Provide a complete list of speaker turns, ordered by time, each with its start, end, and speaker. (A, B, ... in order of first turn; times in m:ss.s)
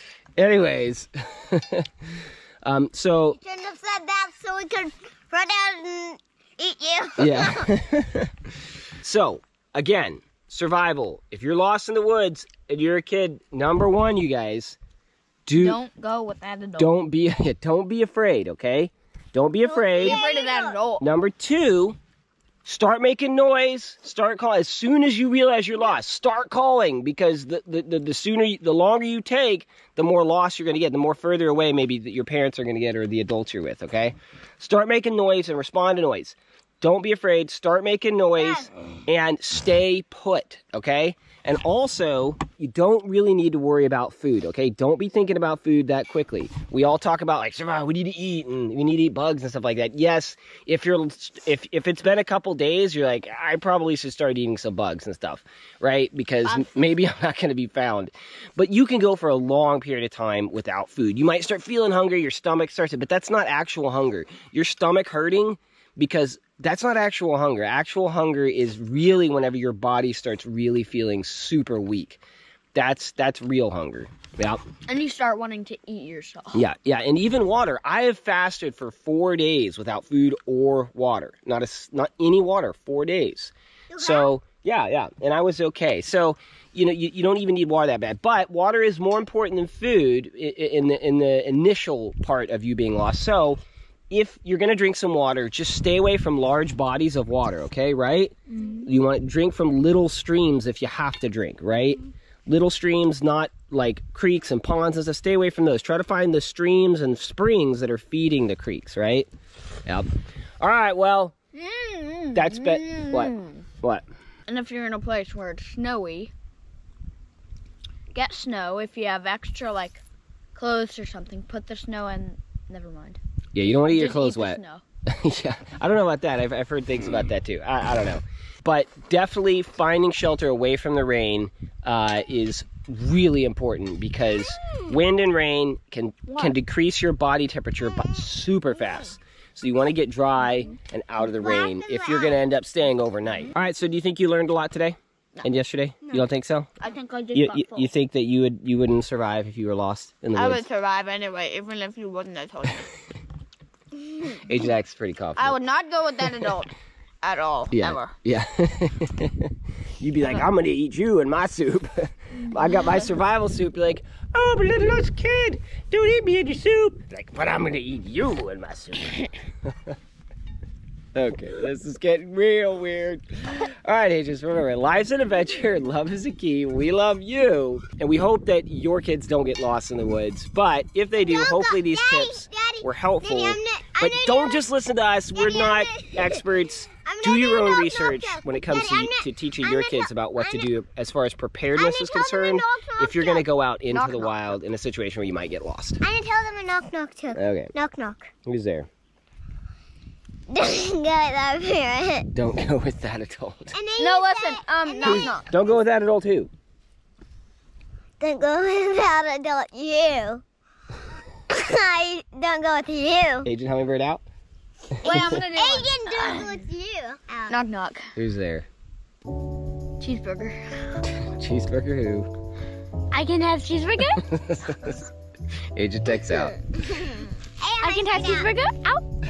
0:00.4-0:03.4 A
0:03.3-0:07.7 B
0:07.2-0:14.8 A
0:15.5-0:15.8 A
0:15.6-0:16.9 C
0:16.8-0:20.2 A
0:19.6-0:20.8 B
0:20.0-0:21.0 C
0:21.0-0:22.0 A
0:22.6-1:12.2 A
1:12.7-1:14.6 A
1:14.9-1:16.6 C
1:16.5-1:49.3 A
1:23.9-1:24.3 B
1:38.5-1:38.9 C
1:50.6-1:51.3 A
1:51.6-1:53.7 C
1:52.3-1:54.0 A
1:54.5-1:56.3 C
1:58.1-2:00.0 C
2:00.6-2:03.2 C
2:03.5-2:26.7 A
2:03.8-2:04.8 C
2:14.6-2:14.9 B
2:16.3-2:16.5 C
2:21.4-2:22.4 B
2:26.8-2:27.9 C
2:27.3-2:30.6 A
2:30.4-2:32.9 C
2:34.4-2:35.6 A
2:35.4-2:38.1 C
2:37.7-2:50.0 A
2:51.1-3:16.0 A
3:01.3-3:04.6 B
3:05.4-3:10.7 B
3:11.8-3:13.5 B
3:13.9-3:14.3 C
3:16.0-3:18.3 B
3:17.3-3:17.7 A
3:18.4-3:18.9 A
3:20.5-3:22.3 B
3:22.3-3:23.7 A
3:23.7-3:25.8 B
3:24.0-3:25.5 C
3:25.0-3:26.5 A
3:28.2-3:30.4 B
3:31.5-3:33.5 B
3:33.4-3:34.2 A
3:35.0-3:36.6 C
3:35.0-3:35.4 A
3:35.2-3:37.6 B
3:37.5-3:38.2 C
3:38.2-3:38.7 A
3:40.0-3:41.0 C
3:41.0-3:42.3 A
3:43.1-3:44.2 C
3:44.2-3:45.0 A
3:45.7-3:46.6 A
3:46.3-3:48.5 B
3:47.8-3:49.0 C